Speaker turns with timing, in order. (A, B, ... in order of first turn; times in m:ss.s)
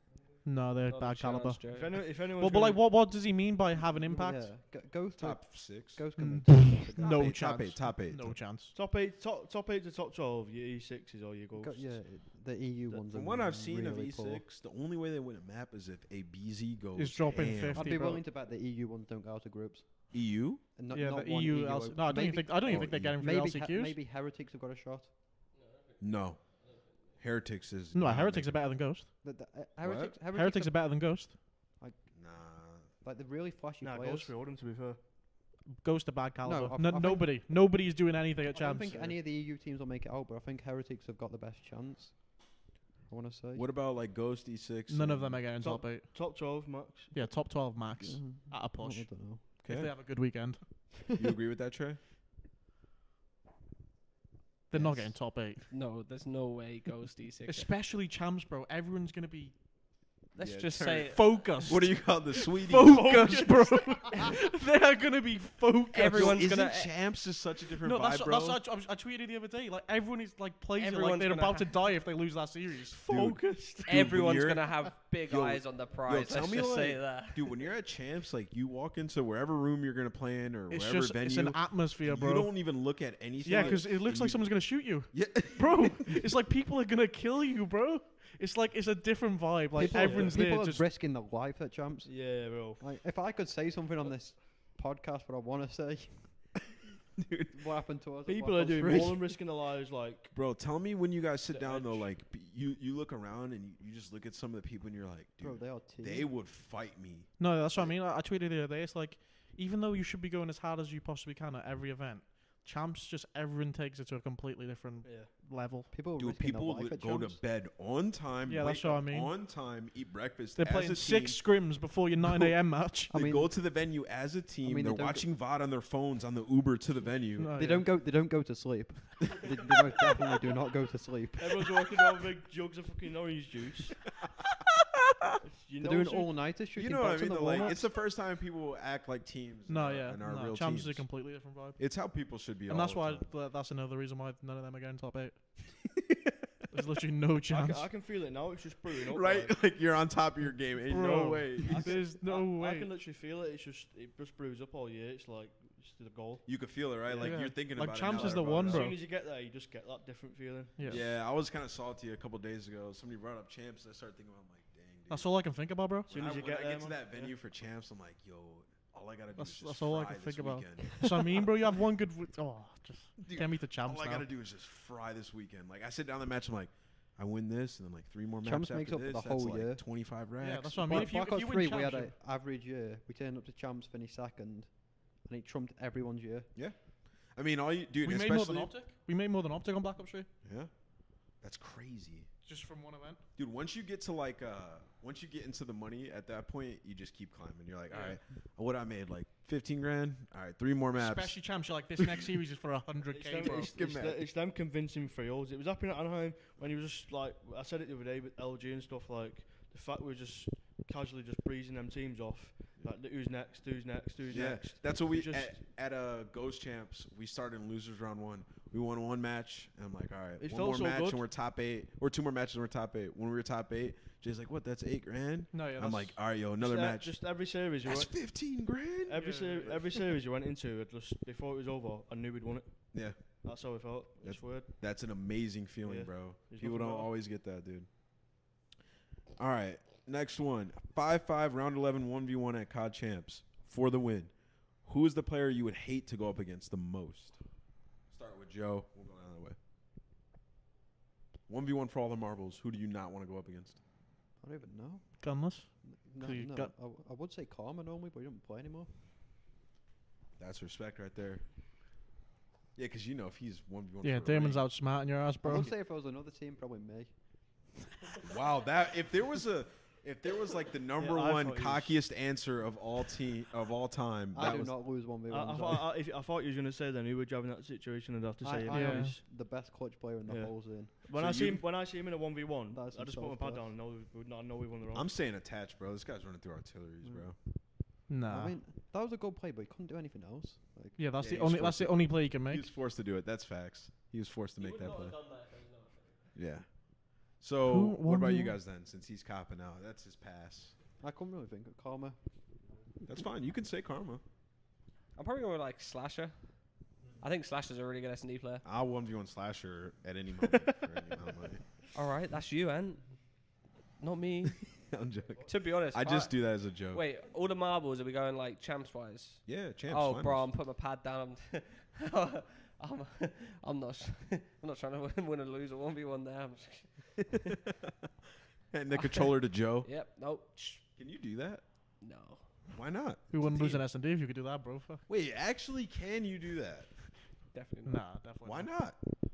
0:00.4-0:01.6 A
0:00.8-0:02.0 B
0:01.7-0:02.8 C
0:02.1-0:04.5 A
0:04.0-0:07.4 D
0:05.2-0:06.0 E
0:06.2-0:08.7 A
0:07.0-0:08.4 E
0:08.7-0:12.0 C
0:11.5-0:14.4 D
0:13.1-0:17.9 E
0:17.0-0:18.2 A
0:17.7-0:19.9 D
0:20.1-0:20.6 E
0:20.8-0:25.1 D
0:20.9-0:24.0 A
0:22.6-0:23.2 E
0:25.5-0:27.2 B
0:26.0-0:26.4 E
0:27.2-0:28.6 E
0:27.9-0:29.1 A
0:29.2-0:30.8 D
0:29.8-0:30.2 E
0:30.3-0:31.4 A
0:32.1-0:32.9 E
0:33.0-0:34.3 D
0:33.8-0:35.0 C
0:35.8-0:39.1 A
0:36.4-0:37.4 D
0:38.5-0:42.4 D
0:43.0-0:43.6 D
0:43.5-0:45.4 E
0:44.9-0:46.1 A
0:45.6-0:47.1 C
0:47.1-0:50.6 A
0:48.0-0:49.4 D
0:49.6-0:49.9 E
0:51.2-0:52.0 E
0:54.7-0:55.6 A
0:54.7-0:55.1 D
0:55.7-0:57.7 B
0:57.5-0:59.5 A
1:00.4-1:01.4 B
1:00.4-1:03.5 E
1:01.0-1:06.5 A
1:03.0-1:03.5 C
1:05.9-1:06.9 B
1:06.0-1:08.6 E
1:07.8-1:13.0 A
1:10.8-1:11.8 B
1:12.9-1:14.1 C
1:13.1-1:26.2 E
1:13.9-1:17.6 B
1:20.7-1:22.8 A
1:23.4-1:30.9 A
1:23.5-1:23.8 C
1:29.8-1:36.5 D
1:29.8-1:30.4 C
1:32.0-1:32.8 C
1:37.2-1:37.6 E
1:37.5-1:39.3 D
1:38.2-1:40.3 C
1:40.3-1:47.9 E
1:41.5-1:42.0 C
1:45.4-1:46.3 D
1:47.4-1:55.9 A
1:55.0-1:55.3 C
1:55.9-1:57.4 D
1:56.2-2:01.4 E
1:58.4-1:59.3 A
2:00.6-2:03.1 A
2:02.2-2:02.5 E
2:03.1-2:03.5 D
2:03.1-2:07.5 E
2:04.6-2:05.2 D
2:07.4-2:07.9 A
2:07.5-2:12.0 D
2:11.4-2:14.0 C
2:15.4-2:16.4 C
2:15.8-2:17.9 D
2:16.7-2:21.1 E
2:19.7-2:21.9 A
2:21.8-2:23.3 E
2:22.7-2:25.4 A
2:26.0-2:26.4 E
2:26.7-2:27.9 A
2:27.5-2:29.5 C
2:29.0-2:32.0 E
2:30.8-2:33.0 A
2:31.6-2:37.5 C
2:36.4-2:39.0 E
2:37.2-2:39.0 A
2:38.0-2:41.0 C
2:40.8-2:41.0 A
2:40.9-2:45.3 E
2:45.1-2:46.1 A
2:46.1-2:51.4 E
2:46.1-2:47.3 C
2:49.4-2:54.2 A
2:53.2-3:01.2 E
2:58.4-2:59.8 D
3:00.4-3:02.1 A
3:00.9-3:04.7 D
3:05.2-3:06.5 D
3:07.3-3:08.7 E
3:08.0-3:10.3 A
3:10.4-3:10.7 E
3:11.4-3:12.3 E
3:12.4-3:13.2 A
3:13.4-3:21.4 E
3:17.9-3:18.2 A
3:21.0-3:23.8 A
3:22.0-3:22.3 E
3:23.1-3:35.6 C
3:23.4-3:24.2 E
3:34.3-3:47.2 E
3:40.4-3:41.2 C
3:45.5-3:46.2 A
3:46.5-3:48.1 C
3:47.8-3:49.7 E
3:49.0-3:52.9 C
3:49.2-3:49.8 A
3:52.9-3:53.2 E
3:53.4-3:54.7 C
3:54.2-3:57.9 E
3:55.8-3:57.1 C
3:59.4-4:04.3 E
4:04.8-4:07.4 E
4:08.1-4:09.6 E
4:11.5-4:13.8 E
4:14.4-4:15.2 D
4:15.2-4:16.7 A
4:15.8-4:18.9 D
4:20.4-4:21.4 E
4:22.8-4:24.7 E
4:24.0-4:25.7 A
4:25.4-4:27.1 D
4:28.2-4:34.7 E
4:31.0-4:32.0 C
4:34.3-4:35.9 D
4:35.2-4:39.2 C
4:38.4-4:41.0 D
4:38.7-4:39.1 A
4:40.3-4:45.1 C
4:41.1-4:41.6 E
4:42.7-4:43.7 D
4:44.9-4:47.4 E
4:48.1-4:48.6 A
4:48.3-4:51.0 D
4:51.0-4:52.7 A
4:51.2-4:55.2 E
4:54.6-4:56.2 B
4:56.3-5:00.7 E
4:57.6-4:58.6 A
5:01.0-5:02.2 D
5:03.0-5:04.2 E
5:05.2-5:06.4 B
5:07.2-5:08.6 B
5:08.6-5:11.6 E
5:11.9-5:13.0 B
5:14.0-5:14.6 B
5:14.7-5:17.0 E
5:15.4-5:27.4 B
5:19.4-5:20.5 E
5:27.4-5:27.9 E
5:28.7-5:29.9 E
5:29.0-5:29.3 B
5:29.8-5:30.8 B
5:31.0-5:31.6 E
5:32.0-5:32.4 B
5:32.7-5:33.8 E
5:33.3-5:35.0 A
5:35.1-5:36.9 E
5:37.5-5:38.0 B
5:37.8-5:38.7 A
5:38.4-5:39.0 E